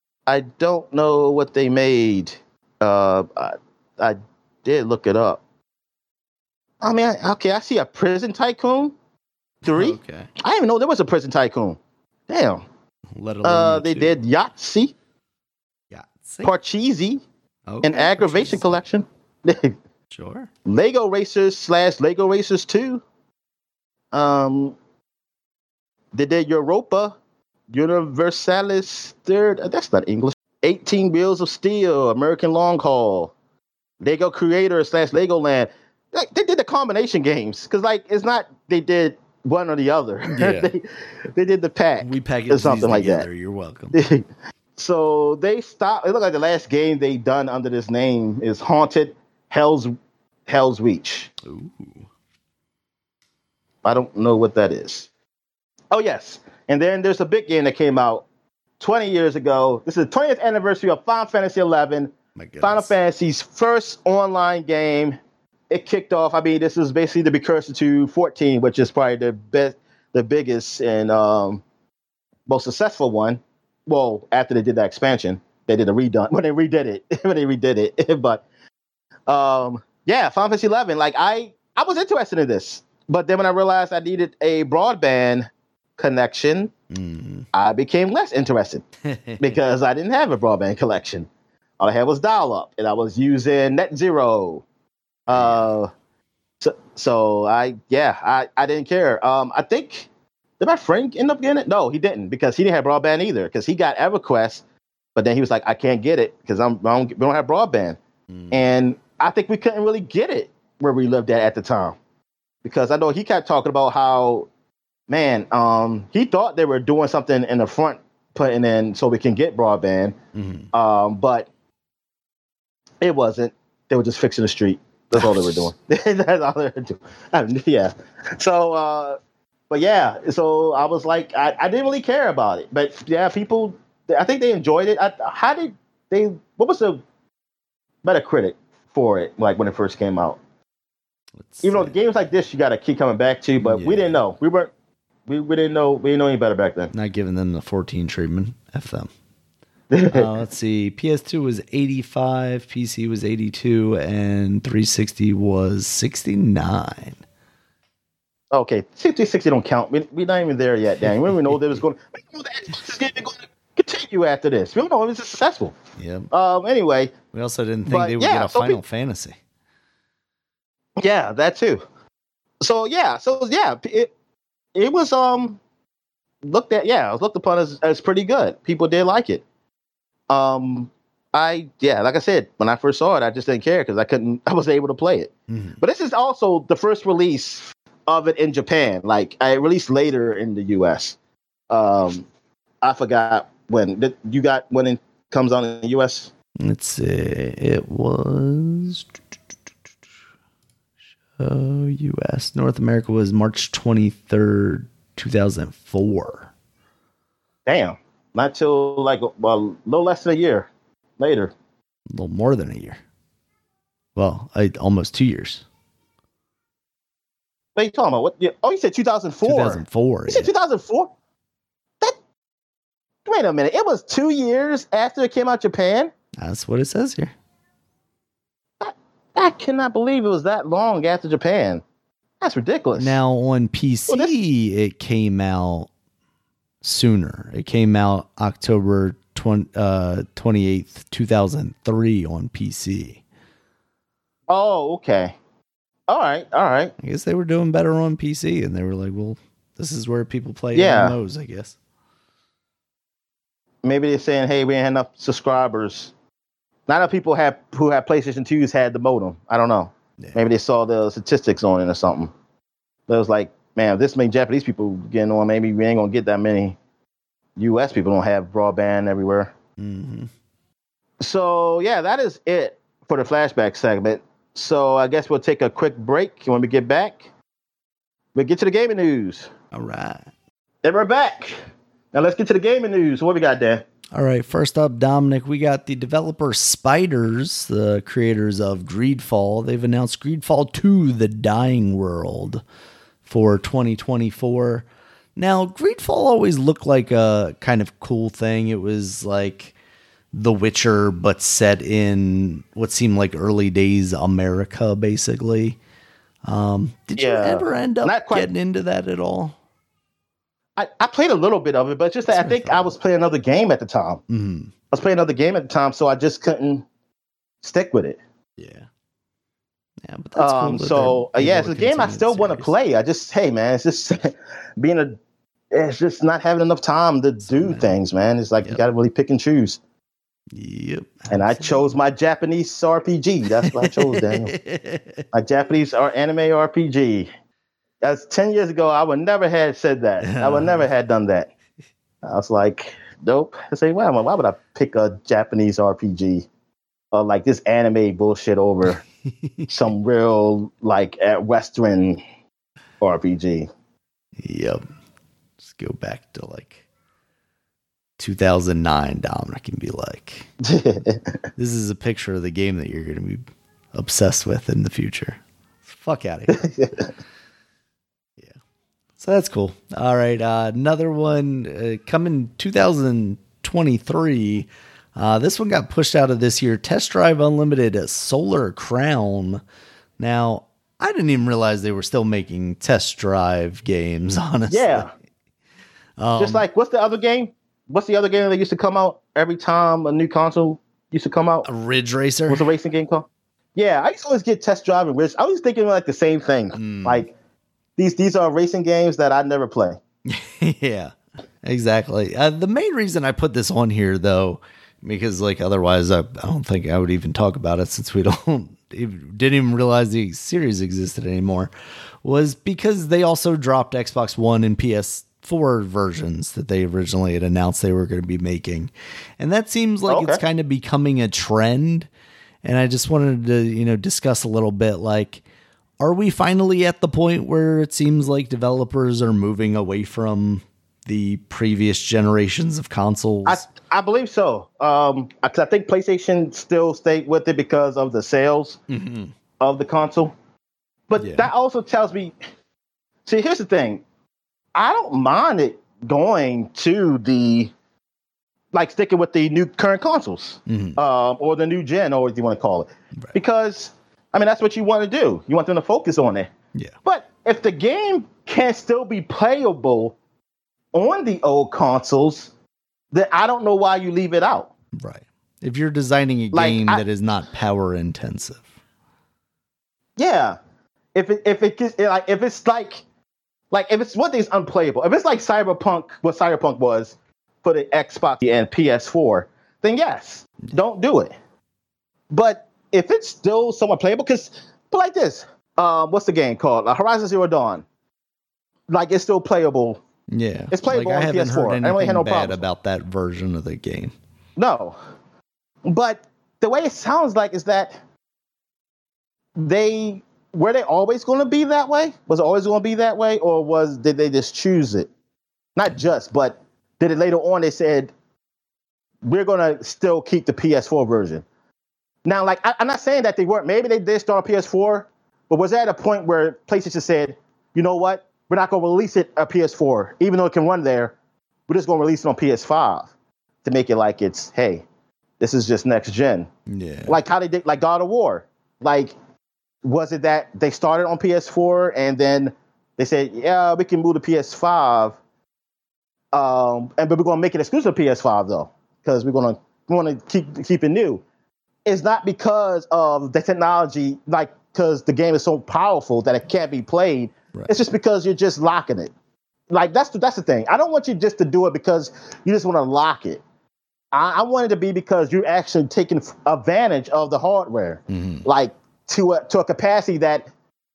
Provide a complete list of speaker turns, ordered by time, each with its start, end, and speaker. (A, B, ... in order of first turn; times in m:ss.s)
0:00.3-0:05.4 A
0:06.8-0:08.9 A
0:09.6-0:10.3 B
0:09.6-0:12.6 A
0:13.2-0:14.2 B
0:13.4-0:14.9 A
0:15.9-0:16.5 B
0:16.4-0:17.2 A
0:17.7-0:18.8 B
0:17.8-0:19.7 A
0:20.1-0:20.5 B
0:20.7-0:23.0 A
0:24.1-0:24.8 A
0:26.1-0:27.2 A
0:27.7-0:33.3 A
0:34.0-0:40.8 A
0:40.2-0:40.7 B
0:41.3-0:43.3 A
0:42.0-0:44.0 B
0:43.9-0:44.2 A
0:44.8-0:49.9 A
0:50.5-0:51.3 A
0:51.4-0:52.1 B
0:53.8-0:55.1 A
0:55.9-0:58.3 A
0:58.8-1:05.2 A
1:02.4-1:02.9 B
1:05.7-1:11.6 A
1:12.5-1:18.4 A
1:19.3-1:25.5 A
1:26.0-1:26.7 A
1:26.9-1:27.5 B
1:27.5-1:28.8 A
1:29.0-1:29.4 B
1:29.4-1:31.3 A
1:31.8-1:34.6 A
1:35.3-1:35.9 A
1:35.3-1:35.7 B
1:36.6-1:40.1 A
1:40.6-1:44.6 A
1:45.2-1:48.0 A
1:48.3-1:48.7 B
1:48.5-1:52.0 A
1:52.6-1:54.5 A
1:55.1-2:00.2 A
2:00.4-2:00.7 B
2:00.7-2:01.5 A
2:03.0-2:09.2 A
2:05.1-2:05.7 B
2:09.7-2:17.0 A
2:18.0-2:20.4 A
2:21.4-2:21.9 B
2:21.6-2:24.7 A
2:23.6-2:24.2 B
2:25.3-2:26.9 A
2:26.9-2:29.1 B
2:29.9-2:30.3 A
2:30.1-2:37.2 B
2:38.5-2:45.8 A
2:41.3-2:41.8 B
2:46.0-2:46.3 B
2:46.3-2:47.2 A
2:47.3-2:49.4 B
2:47.9-2:48.8 A
2:51.0-2:51.8 A
2:52.6-2:54.1 A
2:54.8-2:55.6 A
2:56.4-2:59.4 A
3:00.3-3:11.2 A
3:05.5-3:05.8 B
3:11.7-3:12.3 A
3:12.8-3:16.3 A
3:16.6-3:19.1 B
3:21.4-3:26.5 B
3:27.7-3:30.7 A
3:31.2-3:31.5 A
3:32.1-3:33.0 B
3:34.2-3:35.6 B
3:37.8-3:41.1 A
3:39.4-3:40.5 B
3:43.3-3:46.1 A
3:46.4-3:47.3 B
3:48.8-3:51.8 A
3:52.4-3:53.2 A
3:53.0-3:55.9 B
3:56.8-4:03.2 B
4:04.5-4:05.4 A
4:06.1-4:06.9 A
4:07.0-4:11.8 B
4:10.8-4:11.2 A
4:13.8-4:16.1 A
4:16.9-4:22.3 A
4:23.1-4:26.8 A
4:27.6-4:29.5 A
4:29.8-4:30.3 B
4:31.2-4:37.2 A
4:38.4-4:39.5 A
4:39.7-4:40.3 B
4:40.8-4:41.6 A
4:42.1-4:43.8 A
4:44.1-4:52.6 B
4:53.3-4:59.8 B
5:00.3-5:05.8 B
5:06.5-5:09.6 B
5:07.2-5:08.5 A
5:10.8-5:14.2 A
5:12.3-5:12.9 B
5:14.3-5:14.7 B
5:14.9-5:16.8 A
5:17.6-5:18.2 A
5:18.6-5:18.9 B
5:20.0-5:22.7 B
5:20.4-5:25.2 A
5:25.7-5:29.8 A
5:27.4-5:28.0 B
5:30.5-5:31.9 B
5:31.3-5:34.5 A
5:33.6-5:35.2 B
5:35.3-5:37.3 A
5:38.0-5:41.5 A
5:40.2-5:40.9 B
5:42.2-5:46.5 A
5:47.1-5:49.0 A
5:49.3-5:49.9 B
5:49.7-5:52.2 A
5:53.0-5:53.7 A
5:54.4-5:54.8 B
5:55.6-5:56.8 B
5:58.2-6:00.5 B
6:00.6-6:01.4 A
6:01.6-6:03.4 B
6:03.9-6:06.6 B
6:06.5-6:07.1 A
6:09.2-6:19.6 B
6:20.2-6:25.1 B
6:24.7-6:25.1 A
6:26.2-6:26.7 B
6:26.4-6:31.7 A
6:31.6-6:32.7 B
6:32.5-6:37.3 A
6:36.8-6:37.3 B
6:38.0-6:40.0 A
6:40.3-6:51.7 B
6:52.2-7:02.1 B
7:00.1-7:00.4 A
7:02.6-7:05.4 B
7:06.0-7:13.7 B
7:13.5-7:18.8 A
7:18.9-7:19.3 B
7:19.6-7:20.3 A
7:21.1-7:22.3 A
7:21.2-7:21.5 B
7:23.3-7:24.0 A
7:24.8-7:27.7 A
7:28.7-7:36.5 A
7:30.7-7:31.0 B
7:37.0-7:40.2 A
7:40.9-7:42.5 A
7:43.1-7:44.7 A
7:45.0-7:48.7 B
7:46.5-7:47.0 A
7:50.2-7:50.6 A
7:51.2-7:53.0 A
7:53.7-8:01.3 A
8:02.3-8:07.8 A
8:08.9-8:10.0 A
8:10.3-8:14.1 B
8:10.7-8:12.6 A
8:14.6-8:15.0 A
8:15.9-8:18.0 A
8:19.6-8:25.1 A
8:25.8-8:28.1 A
8:29.2-8:31.4 A
8:32.2-8:41.2 A
8:41.7-8:43.1 A
8:43.6-8:44.8 A
8:45.4-8:46.5 A
8:46.7-8:47.2 B
8:47.1-8:49.1 A
8:49.8-8:55.2 A
8:56.3-9:01.2 A
9:01.9-9:09.1 A
9:09.7-9:13.4 A
9:14.1-9:20.5 A
9:18.1-9:18.4 B